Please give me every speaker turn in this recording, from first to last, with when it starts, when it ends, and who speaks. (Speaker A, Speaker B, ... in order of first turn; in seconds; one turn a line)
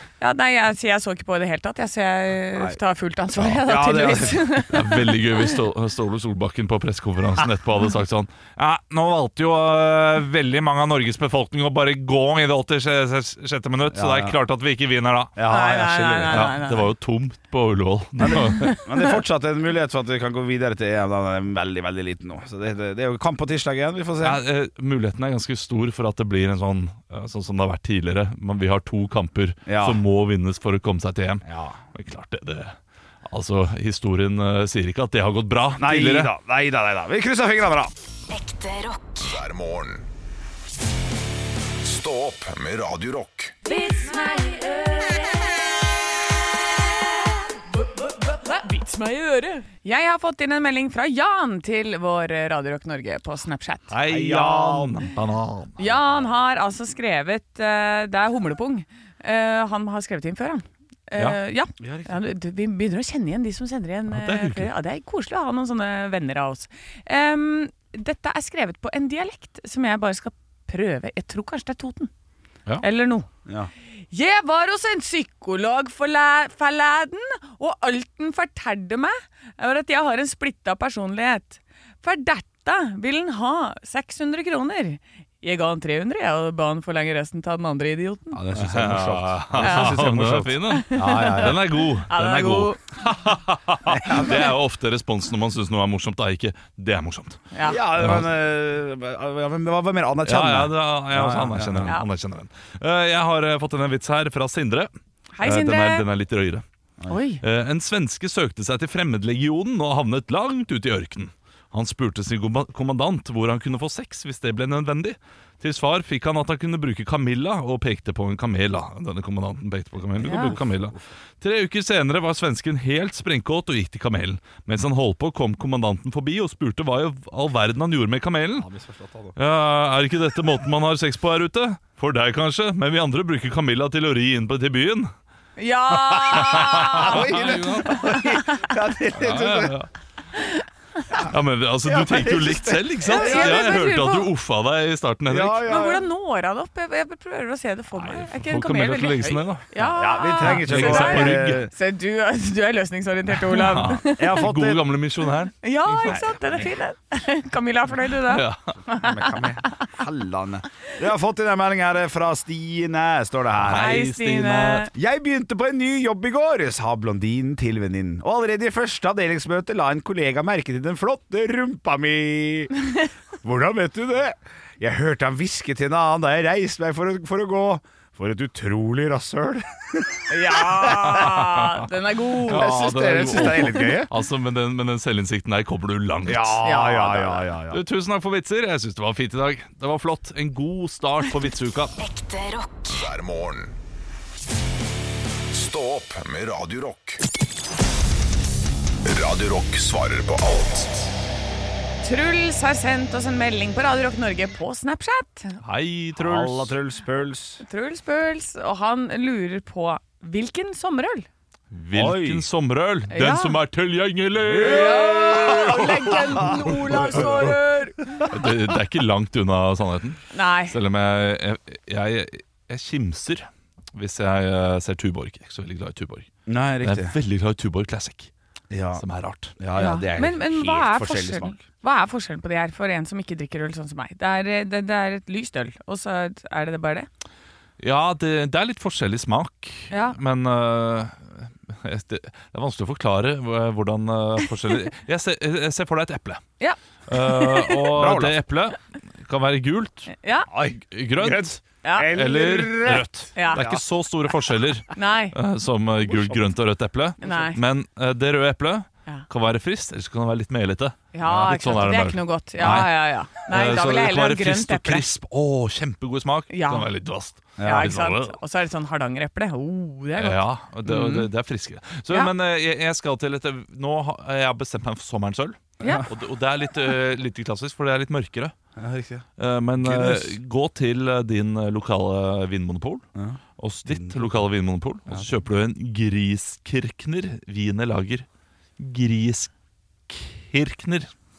Speaker A: 0.2-5.5
Speaker B: 3.6-4.5
Speaker C: 4.7-15.3
Speaker B: 13.9-14.3
Speaker B: 15.3-16.5
Speaker A: 15.5-16.9
Speaker C: 16.3-18.8
Speaker B: 18.2-24.4
Speaker A: 18.3-19.0
Speaker C: 24.2-36.3
Speaker B: 29.6-30.0
Speaker B: 31.4-31.8
Speaker B: 35.8-37.9
Speaker D: 38.3-39.4
Speaker E: 39.2-40.0
Speaker E: 41.8-43.5
Speaker A: 43.6-45.4
Speaker A: 47.8-53.9
Speaker C: 53.9-55.8
Speaker B: 54.0-55.0
Speaker A: 55.8-72.1
Speaker B: 61.8-62.2
Speaker C: 64.1-64.7
Speaker A: 72.8-73.3
Speaker A: 74.1-88.4
Speaker B: 88.3-91.7
Speaker C: 88.5-97.4
Speaker A: 89.6-90.0
Speaker A: 90.6-92.8
Speaker B: 93.9-94.5
Speaker A: 97.5-97.8
Speaker B: 97.6-101.9
Speaker C: 97.9-98.3
Speaker C: 100.2-104.9
Speaker A: 105.4-106.0
Speaker C: 105.4-106.6
Speaker A: 107.1-107.4
Speaker C: 107.4-128.7
Speaker B: 120.2-121.0
Speaker A: 120.2-120.5
Speaker B: 128.6-129.3
Speaker C: 129.3-135.1
Speaker A: 135.6-138.7
Speaker B: 136.1-139.8
Speaker C: 136.4-138.2
Speaker C: 139.1-139.9
Speaker A: 140.3-140.6
Speaker C: 141.1-145.6
Speaker B: 141.8-143.7
Speaker A: 143.0-144.3
Speaker B: 145.3-146.0
Speaker A: 145.6-154.4
Speaker C: 147.9-149.7
Speaker B: 149.8-151.7
Speaker C: 150.4-151.7
Speaker C: 153.4-156.2
Speaker B: 154.0-154.9
Speaker A: 155.6-159.9
Speaker B: 156.0-156.6
Speaker C: 158.2-158.7
Speaker B: 158.9-164.0
Speaker C: 163.6-164.9
Speaker A: 163.7-164.9
Speaker B: 164.9-172.7
Speaker B: 173.4-181.5
Speaker A: 180.3-183.9
Speaker C: 181.1-181.7
Speaker C: 182.4-186.6
Speaker B: 182.5-184.1
Speaker B: 186.2-187.8
Speaker A: 186.6-187.4
Speaker C: 187.7-191.9
Speaker D: 192.0-193.1
Speaker E: 192.9-193.7
Speaker E: 195.5-197.2
Speaker E: 199.0-201.1
Speaker A: 202.0-205.6
Speaker C: 205.6-206.8
Speaker B: 206.2-207.6
Speaker A: 207.6-211.3
Speaker C: 211.7-216.2
Speaker B: 211.9-212.4
Speaker A: 213.1-213.6
Speaker B: 214.4-217.5
Speaker A: 214.6-218.3
Speaker C: 218.2-228.3
Speaker A: 220.3-220.8
Speaker B: 226.5-227.1
Speaker B: 228.7-229.0
Speaker C: 228.9-229.6
Speaker B: 229.6-231.6
Speaker A: 229.8-237.1
Speaker C: 237.8-246.4
Speaker A: 239.9-240.2
Speaker A: 246.6-247.9
Speaker C: 247.1-250.1
Speaker B: 247.9-248.3
Speaker A: 250.2-250.5
Speaker B: 250.5-253.8
Speaker C: 250.8-268.4
Speaker A: 251.8-252.1
Speaker A: 253.3-253.6
Speaker A: 254.9-255.3
Speaker B: 256.1-256.4
Speaker A: 257.2-257.6
Speaker A: 261.1-265.1
Speaker B: 261.2-261.5
Speaker A: 266.5-266.9
Speaker B: 267.6-267.9
Speaker A: 267.6-271.2
Speaker C: 270.2-278.5
Speaker A: 275.8-276.1
Speaker B: 275.8-276.1
Speaker B: 278.8-279.2
Speaker C: 279.4-283.0
Speaker B: 279.8-280.3
Speaker B: 283.1-284.3
Speaker C: 283.6-288.2
Speaker C: 288.8-289.5
Speaker C: 290.1-291.1